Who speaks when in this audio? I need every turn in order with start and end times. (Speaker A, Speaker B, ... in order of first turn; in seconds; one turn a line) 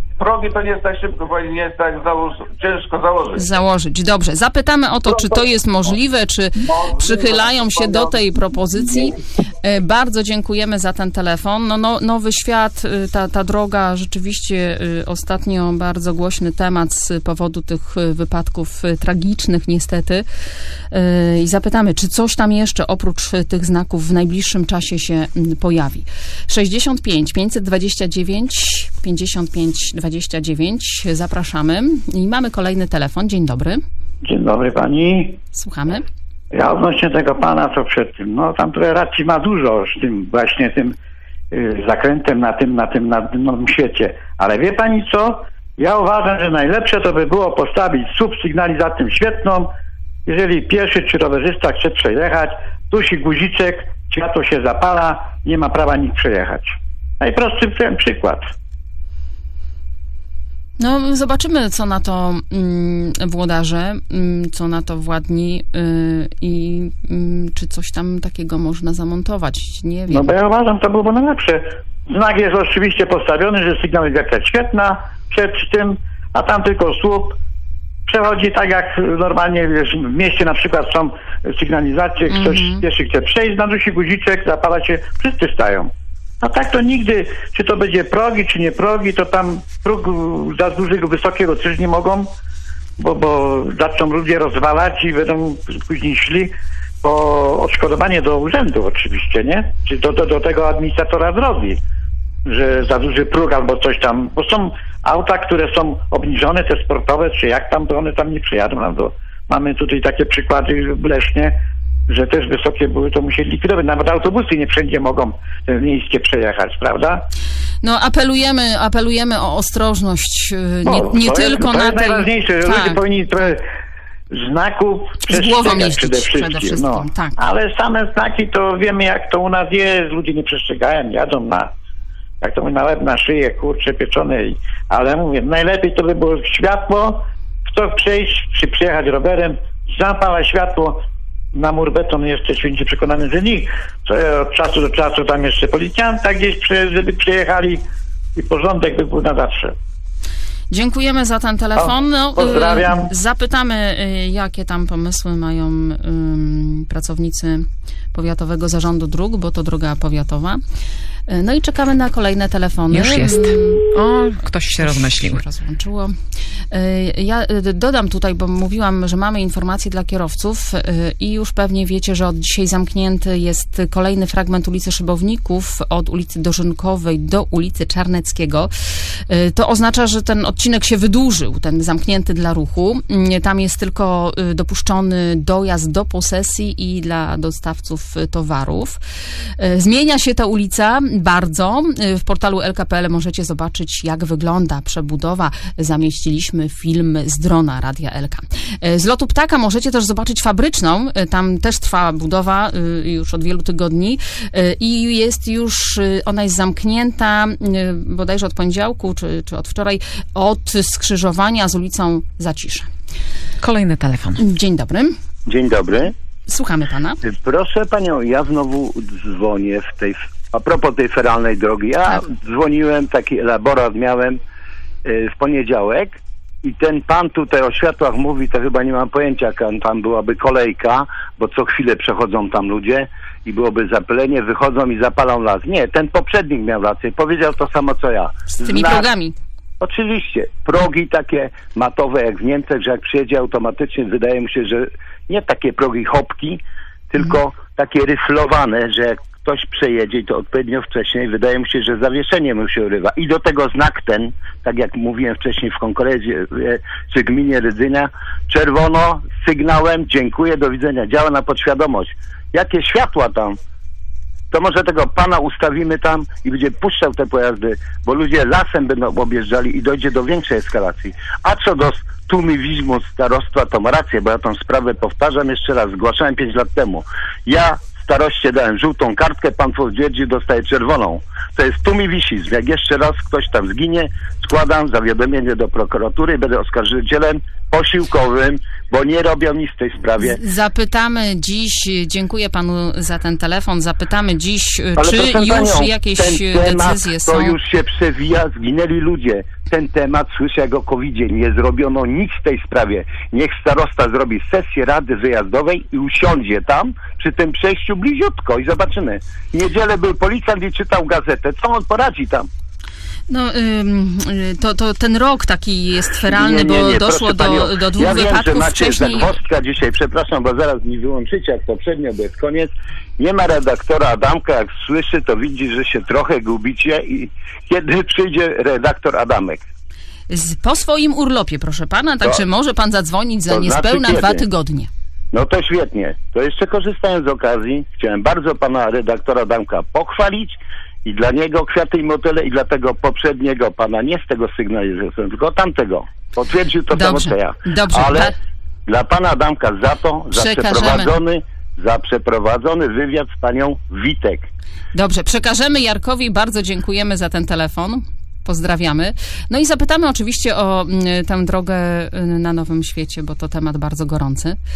Speaker A: 0.2-3.4
Speaker B: 3.4-20.2
Speaker A: 5.1-5.4
Speaker A: 6.6-8.2
Speaker B: 20.9-33.8
Speaker C: 34.2-35.4
Speaker B: 35.5-36.0
Speaker C: 36.5-41.0
Speaker C: 41.5-49.7
Speaker C: 50.2-58.5
Speaker B: 60.8-70.3
Speaker C: 70.1-77.4
Speaker C: 78.0-92.3
Speaker B: 82.3-82.8
Speaker C: 93.0-101.8
Speaker C: 102.5-111.6
Speaker C: 112.1-117.2
Speaker B: 117.8-123.0
Speaker C: 120.8-123.6
Speaker C: 124.3-131.7
Speaker B: 125.2-127.4
Speaker C: 132.4-149.7
Speaker B: 150.7-160.6
Speaker C: 151.8-153.1
Speaker B: 161.3-163.9
Speaker D: 162.9-165.4
Speaker B: 164.7-166.2
Speaker B: 166.7-178.7
Speaker B: 179.3-189.0
Speaker B: 189.6-212.9
Speaker D: 213.6-214.4
Speaker B: 214.4-215.2
Speaker E: 215.4-216.1
Speaker B: 216.5-217.2
Speaker E: 217.2-224.4
Speaker E: 225.0-239.1
Speaker B: 238.5-239.3
Speaker E: 239.8-263.6
Speaker E: 264.5-290.4
Speaker B: 290.2-297.6
Speaker E: 295.0-312.5
Speaker B: 313.3-319.3
Speaker E: 316.2-329.6
Speaker B: 330.3-334.9
Speaker E: 333.5-334.4
Speaker E: 335.3-348.4
Speaker B: 346.9-348.4
Speaker E: 348.9-354.5
Speaker B: 350.3-351.1
Speaker B: 354.9-364.6